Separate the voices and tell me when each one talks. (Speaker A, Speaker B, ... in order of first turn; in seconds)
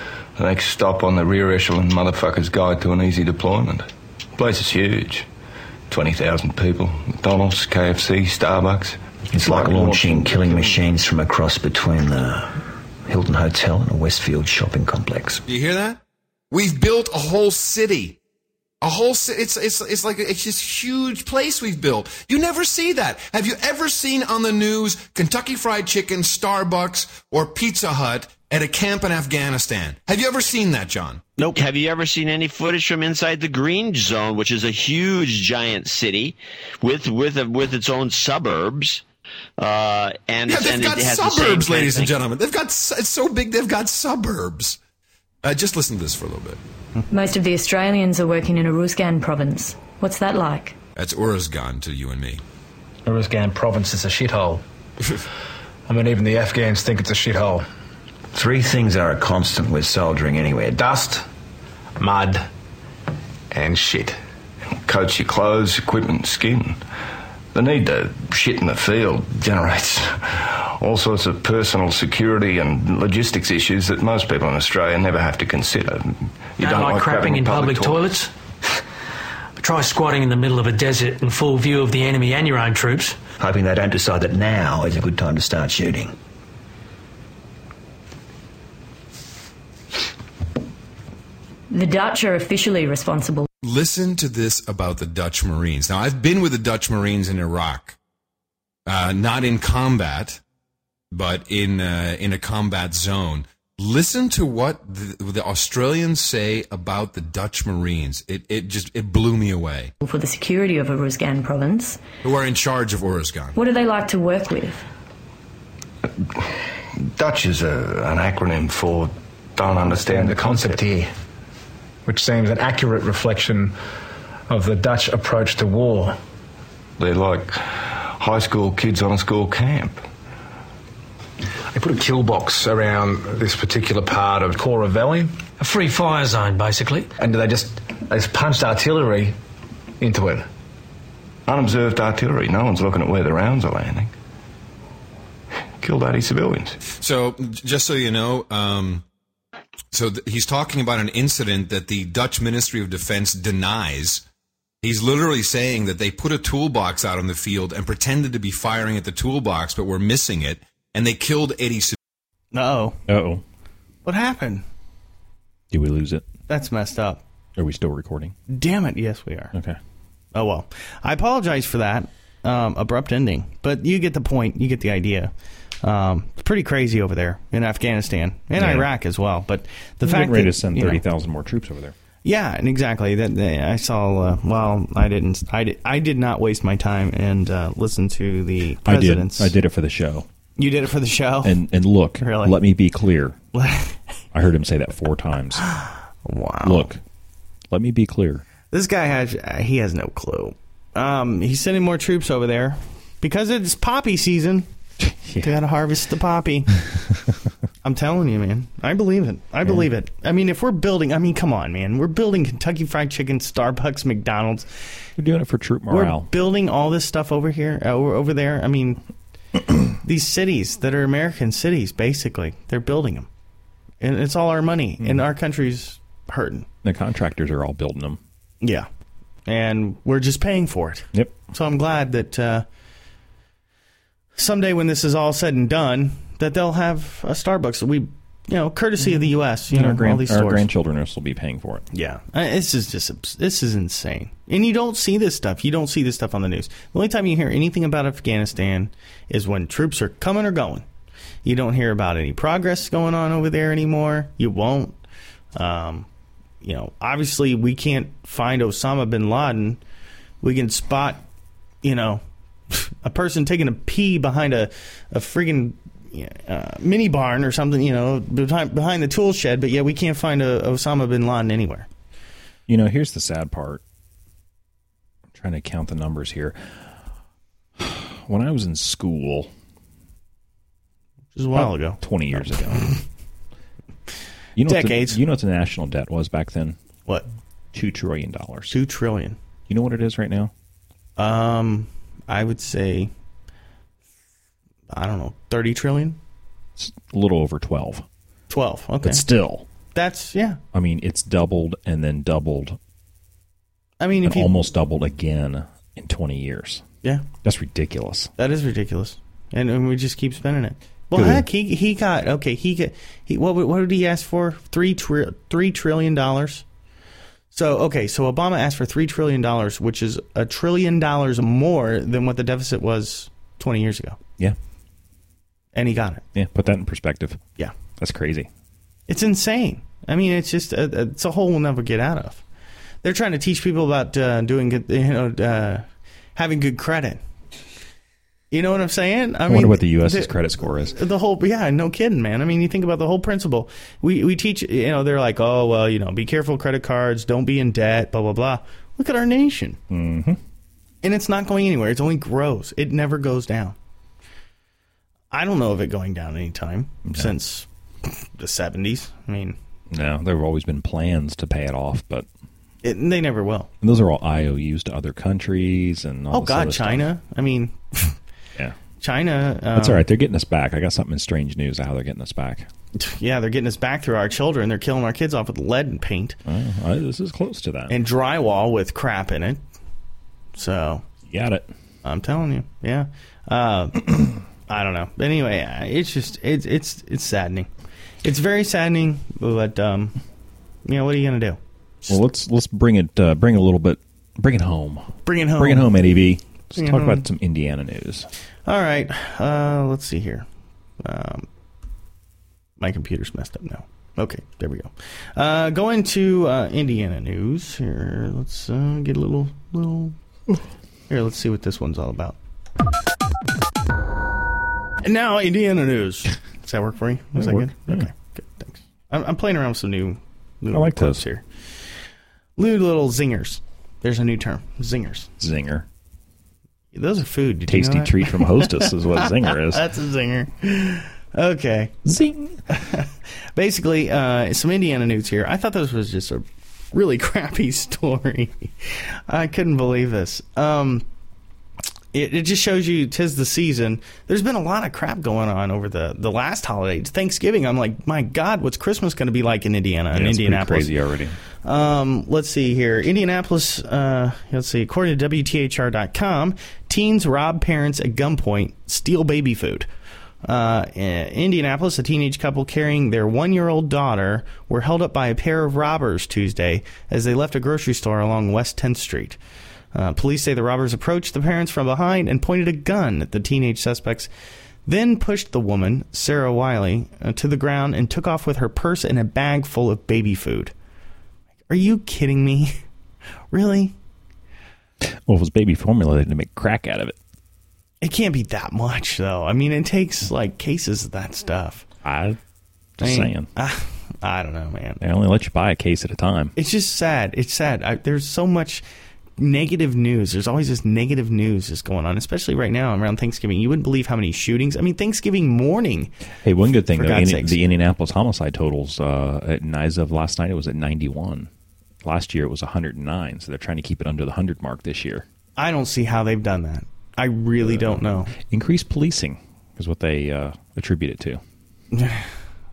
Speaker A: 0.4-5.3, 5.9-10.8, 64.8-66.8, 67.5-78.1, 117.0-120.8, 127.0-130.0, 141.5-144.1, 145.8-146.8
Speaker B: 9.3-15.4, 58.3-60.8, 83.4-86.1
Speaker C: 15.5-16.0, 16.5-18.2, 18.8-31.2, 40.4-44.8, 45.4-46.6, 51.0-52.4, 93.6-98.0, 98.9-100.4, 101.1-109.9, 112.2-113.6, 146.9-149.0, 149.9-154.2, 154.8-161.9
Speaker D: 31.5-39.0, 39.6-42.1
Speaker E: 47.1-50.7, 91.7-93.5, 110.0-112.0, 113.5-114.8
Speaker F: 53.0-54.6, 55.9-57.6, 60.8-61.2, 62.0-62.5, 63.5-64.2, 119.8-121.1, 122.0-123.7, 124.5-126.2, 131.7-135.3, 137.2-139.3, 140.0-140.4
Speaker G: 76.6-78.3, 79.6-83.2, 135.6-137.1
Speaker H: 162.5-163.0, 164.0-164.6, 166.5-167.2, 168.5-169.5, 170.3-175.3, 175.8-181.0, 182.2-189.5, 190.6-191.6, 192.2-192.6, 193.5-193.9, 196.2-196.9, 198.7-204.7, 205.4-206.8, 207.8-214.7, 215.9-219.0, 220.0-223.3, 224.0-226.7, 228.6-228.9, 229.4-232.6, 234.3-240.7, 241.9-250.8, 251.4-254.9, 255.5-256.1, 256.6-259.8, 260.4-261.2, 261.8-271.9, 281.3-282.9, 284.7-285.2, 288.7-289.4, 291.2-293.1, 294.9-296.2, 298.5-299.2, 299.9-300.6, 304.0-304.5, 308.4-316.6, 317.5-324.2, 325.7-326.2, 329.1-332.4, 333.0-335.8, 336.4-337.2, 338.5-349.8, 351.0-353.7, 355.3-359.6, 362.8-363.7, 366.3-368.1, 369.0-370.1, 372.9-376.4, 377.9-379.6, 380.6-381.0, 382.0-387.7, 388.2-390.1, 390.9-392.1, 395.2-396.0, 396.8-397.2, 398.6-400.4, 401.0-401.4, 402.8-410.1, 411.1-412.4, 415.0-421.4, 422.6-425.3, 426.9-432.1, 432.7-441.0, 442.1-450.9, 451.6-459.9, 460.4-469.4, 469.9-474.3, 474.9-480.7, 481.7-482.7, 483.5-483.9, 488.0-491.9, 493.0-495.0, 496.6-498.8, 499.4-506.1, 506.9-507.6, 515.6-518.3, 521.9-522.2
Speaker I: 163.1-163.4, 165.7-166.2, 167.6-168.3, 178.6-178.9, 180.0-181.9, 188.8-190.3, 191.4-193.4, 194.3-195.7, 196.6-197.0, 197.7-198.4, 215.2-216.3, 226.8-228.2, 239.7-241.9, 272.7-273.8, 275.3-276.6, 277.8-279.5, 281.6-282.9, 284.6-286.8, 287.7-288.8, 289.7-290.5, 296.8-298.0, 299.0-299.6, 300.7-302.8, 304.2-306.8, 307.4-308.3, 311.1-311.4, 326.3-327.4, 328.0-328.5, 339.5-341.0, 349.9-350.4, 357.1-357.3, 359.9-362.3, 363.8-367.1, 369.7-372.7, 376.4-377.9, 381.3-381.7, 392.1-398.3, 417.4-418.1, 420.7-421.2, 425.4-425.9, 427.7-429.8, 432.1-432.6, 450.1-451.4, 485.0-487.1, 492.0-492.4, 493.0-493.5, 495.0-496.5, 506.4-511.5, 512.0-515.2, 517.7-521.4